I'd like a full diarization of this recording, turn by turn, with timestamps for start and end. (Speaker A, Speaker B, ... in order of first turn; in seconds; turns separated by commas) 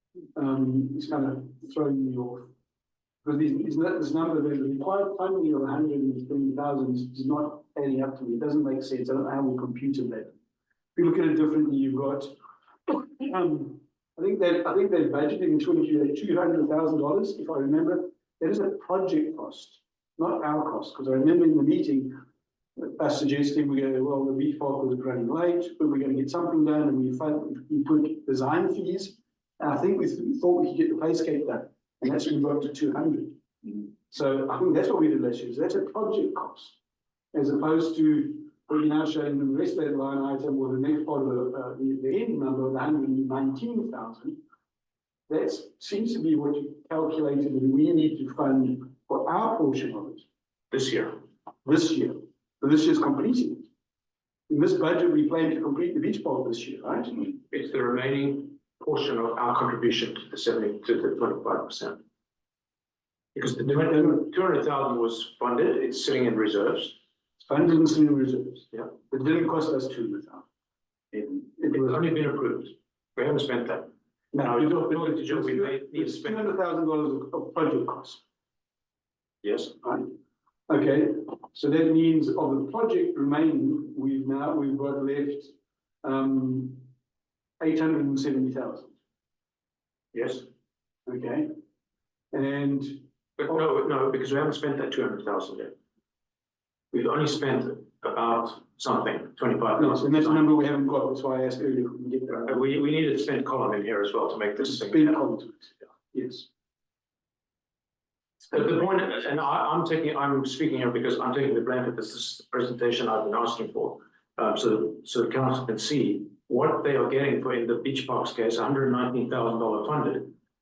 Speaker A: 0.3-2.5, Speaker A: 3.2-10.3, Speaker A: 10.9-12.3, Speaker A: 12.9-22.2, Speaker A: 22.8-33.4, Speaker A: 34.1-36.8, Speaker A: 37.3-44.4, Speaker A: 45.3-50.2, Speaker B: 50.7-51.2, Speaker A: 51.6-53.7, Speaker A: 54.5-57.2, Speaker B: 57.5-62.0, Speaker B: 63.3-67.0, Speaker A: 63.7-64.2, Speaker A: 67.4-70.5, Speaker A: 71.2-72.1, Speaker B: 71.7-73.9, Speaker A: 74.3-78.2, Speaker B: 74.4-76.5, Speaker B: 79.4-79.8, Speaker A: 80.7-85.5, Speaker A: 86.0-86.9, Speaker A: 87.6-88.9, Speaker B: 90.1-90.5, Speaker A: 91.0-91.5, Speaker A: 92.3-93.6, Speaker B: 93.4-95.7, Speaker B: 96.9-100.4, Speaker A: 99.8-102.8, Speaker B: 102.3-105.2, Speaker A: 104.6-106.5, Speaker B: 108.5-120.3